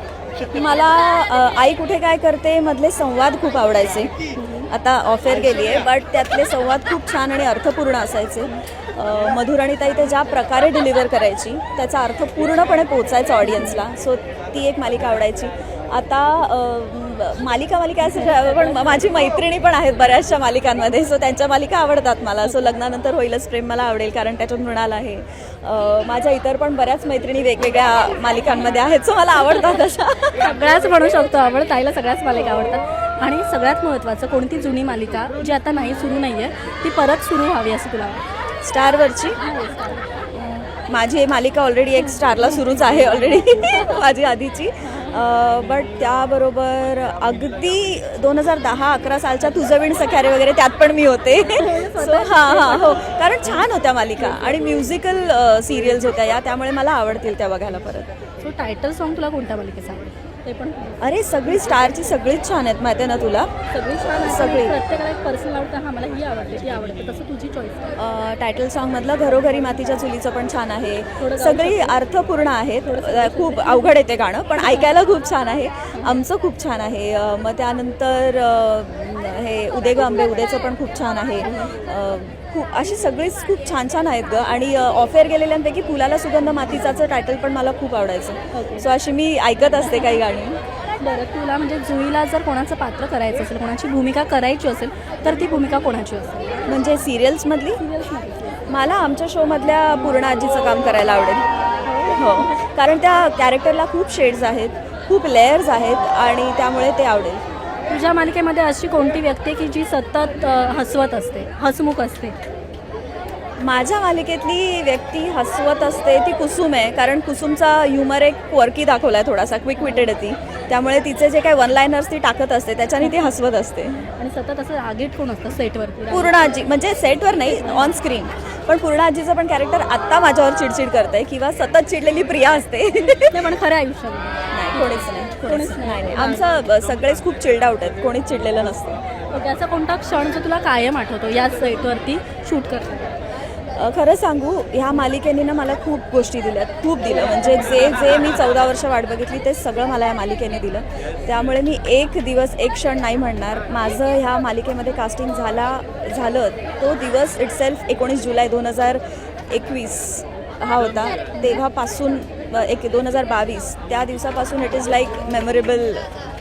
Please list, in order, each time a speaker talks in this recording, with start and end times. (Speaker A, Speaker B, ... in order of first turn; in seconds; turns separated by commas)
Speaker A: 0.4-4.1, Speaker B: 4.4-4.7, Speaker A: 4.7-30.4, Speaker B: 13.5-13.8, Speaker B: 30.4-38.2, Speaker A: 38.6-39.4, Speaker B: 39.4-40.1, Speaker A: 40.3-58.1, Speaker B: 51.5-53.1, Speaker B: 58.4-61.0, Speaker A: 61.0-63.5, Speaker B: 63.7-68.0, Speaker A: 64.2-64.8, Speaker A: 68.0-90.6, Speaker B: 71.2-72.0, Speaker B: 72.8-73.9, Speaker B: 81.5-81.7, Speaker B: 88.5-88.9, Speaker B: 91.0-96.8, Speaker A: 96.7-97.8, Speaker B: 97.8-98.6, Speaker A: 98.7-101.5, Speaker B: 101.8-102.5, Speaker A: 102.2-107.4, Speaker B: 107.9-112.4, Speaker A: 113.6-124.1, Speaker B: 123.0-123.3, Speaker B: 124.2-126.6, Speaker A: 126.1-133.4, Speaker B: 127.5-128.0, Speaker B: 133.1-136.5, Speaker A: 134.5-139.0, Speaker B: 139.3-143.1, Speaker A: 143.7-166.1, Speaker B: 147.2-147.9